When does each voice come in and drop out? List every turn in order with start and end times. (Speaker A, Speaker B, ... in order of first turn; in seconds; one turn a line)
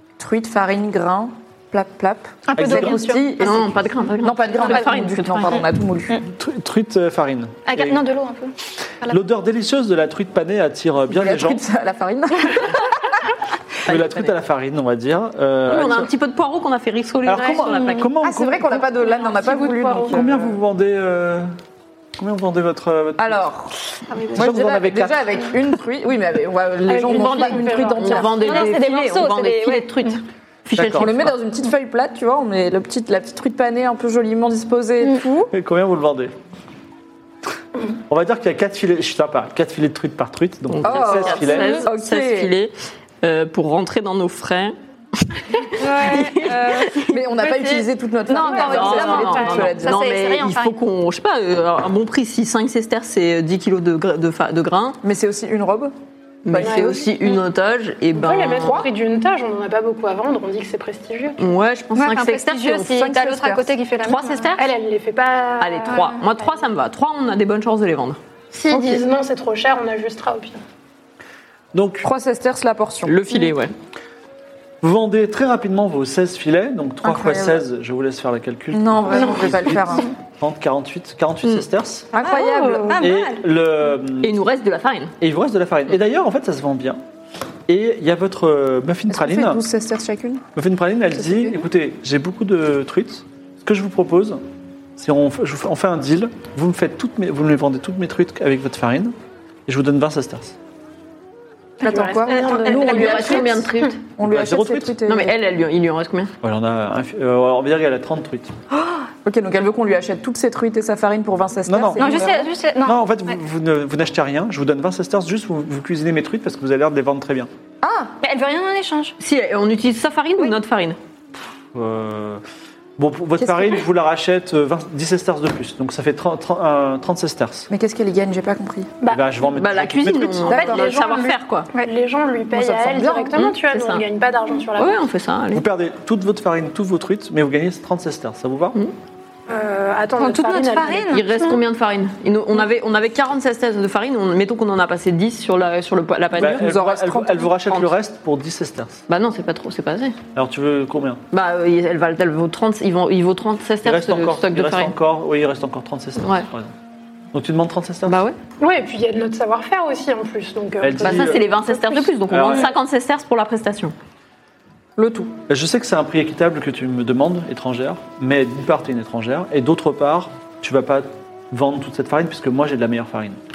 Speaker A: 0.2-6.1
Speaker B: 2.5-3.5
Speaker C: 2.6-3.0
Speaker D: 3.4-5.6
Speaker C: 6.3-8.1
Speaker B: 7.7-9.2
Speaker C: 9.1-11.6
Speaker A: 11.1-12.9
Speaker C: 13.9-16.1
Speaker D: 15.7-18.1
Speaker C: 17.3-18.8
Speaker A: 18.2-20.6
Speaker E: 19.0-20.3
Speaker C: 20.1-21.5
Speaker C: 22.2-23.5
Speaker A: 23.2-23.8
Speaker A: 24.3-28.6
Speaker C: 24.4-25.5
Speaker E: 26.9-28.7
Speaker D: 27.1-31.4
Speaker B: 28.4-30.2
Speaker C: 30.8-31.1
Speaker A: 30.8-35.5
Speaker C: 35.5-36.3
Speaker C: 38.1-41.8
Speaker D: 40.7-44.8
Speaker A: 40.8-42.5
Speaker D: 45.3-47.5
Speaker B: 45.8-47.0
Speaker A: 47.1-50.0
Speaker B: 48.3-50.8
Speaker D: 48.5-55.0
Speaker E: 48.7-49.6
Speaker A: 55.0-55.9
Speaker D: 56.5-58.9
Speaker A: 56.5-57.0
Speaker E: 56.5-57.4
Speaker E: 58.1-61.4
Speaker D: 61.4-63.1
Speaker B: 62.0-64.6
Speaker A: 62.9-63.7
Speaker D: 64.0-64.7
Speaker E: 64.6-66.2
Speaker D: 65.6-68.2
Speaker E: 68.5-70.6
Speaker A: 68.7-69.0
Speaker C: 71.7-72.1
Speaker A: 72.0-73.2
Speaker D: 73.0-73.7
Speaker C: 74.8-82.1
Speaker A: 77.0-77.7
Speaker A: 78.7-80.1
Speaker E: 79.2-79.5
Speaker A: 82.1-83.1
Speaker B: 82.2-83.4
Speaker E: 82.3-83.0
Speaker C: 83.0-84.4
Speaker D: 84.2-85.1
Speaker C: 85.2-87.0
Speaker C: 87.7-89.6
Speaker A: 89.1-90.4
Speaker C: 90.5-94.4
Speaker A: 91.2-91.5
Speaker C: 95.0-99.1
Speaker C: 99.7-100.6
Speaker A: 101.8-103.6
Speaker B: 101.8-103.5
Speaker E: 101.8-103.7
Speaker D: 102.7-104.0
Speaker A: 104.2-105.4
Speaker C: 104.2-105.0
Speaker D: 105.1-106.3
Speaker C: 106.4-108.5
Speaker A: 109.2-112.5
Speaker C: 111.7-112.2
Speaker B: 112.0-113.3
Speaker C: 112.8-117.5
Speaker A: 117.8-118.1
Speaker B: 118.2-119.2
Speaker D: 119.2-121.0
Speaker C: 121.7-122.4
Speaker C: 123.0-127.7
Speaker A: 123.4-123.8
Speaker A: 127.7-128.9
Speaker C: 129.1-130.6
Speaker D: 129.6-131.7
Speaker E: 130.5-135.0
Speaker A: 130.6-130.8
Speaker A: 132.5-133.4
Speaker D: 133.3-134.1
Speaker D: 134.8-135.6
Speaker C: 135.5-138.8
Speaker E: 139.5-141.6
Speaker B: 140.2-141.4
Speaker D: 141.1-146.8
Speaker C: 146.4-149.0
Speaker A: 146.4-147.5
Speaker D: 149.1-150.2
Speaker C: 150.3-151.2
Speaker D: 151.3-154.9
Speaker C: 153.8-156.7
Speaker D: 156.2-156.5
Speaker C: 157.3-158.2
Speaker D: 158.1-158.4
Speaker E: 158.6-162.2
Speaker C: 160.8-161.4
Speaker D: 161.0-163.9
Speaker C: 162.3-162.7
Speaker A: 165.0-165.3
Speaker C: 165.5-173.4